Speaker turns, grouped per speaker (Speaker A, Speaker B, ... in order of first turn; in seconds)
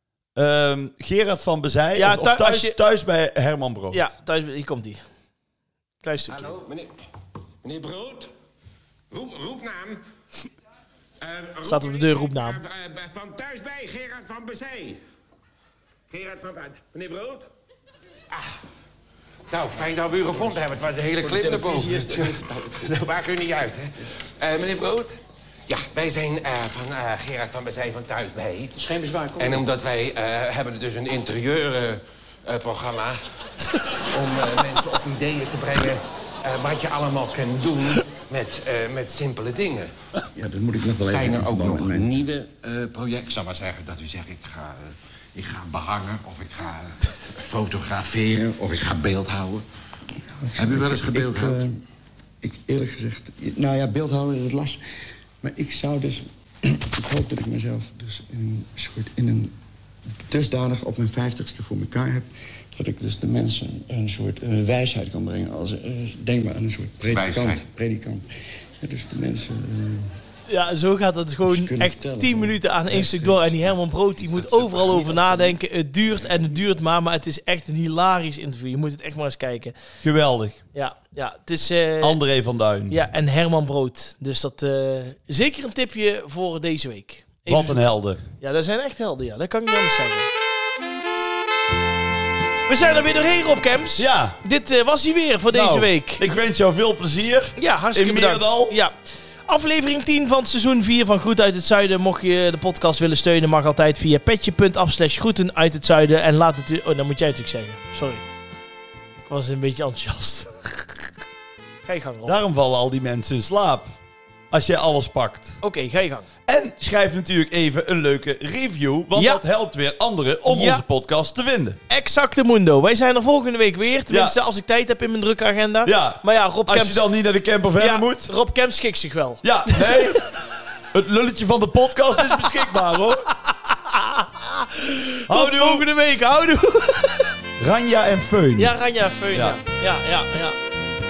Speaker A: 0.4-4.0, 80.0-80.6, 82.0-83.0, 87.5-88.2, 94.0-94.4, 95.5-98.8, 112.3-113.9, 114.5-115.6, 116.5-121.8, 124.1-124.4, 125.8-128.3, 129.4-130.2, 130.9-133.3, 135.3-135.9, 137.6-138.8, 139.3-139.6
Speaker B: 1.9-2.8, 3.9-5.0, 6.0-6.6, 11.6-12.6, 70.5-79.8, 80.7-82.2, 82.9-87.8, 88.4-90.3, 92.7-96.4, 97.6-99.0, 99.5-108.2, 109.2-111.1, 111.8-112.4, 115.6-116.3, 119.1-119.4, 120.5-120.8, 121.9-127.0, 127.8-130.2, 133.5-137.3, 138.6-140.6
Speaker C: 6.3-6.9, 7.6-8.3, 9.1-10.0, 11.2-15.0, 16.1-17.5, 19.5-25.1, 25.7-33.2, 34.0-39.9, 41.0-49.6, 50.5-51.7, 67.0-67.7
Speaker D: 21.2-23.1, 28.9-29.6, 40.4-42.2, 50.3-51.8, 52.4-54.8, 55.4-59.5, 60.3-68.2, 68.8-70.1, 71.5-75.5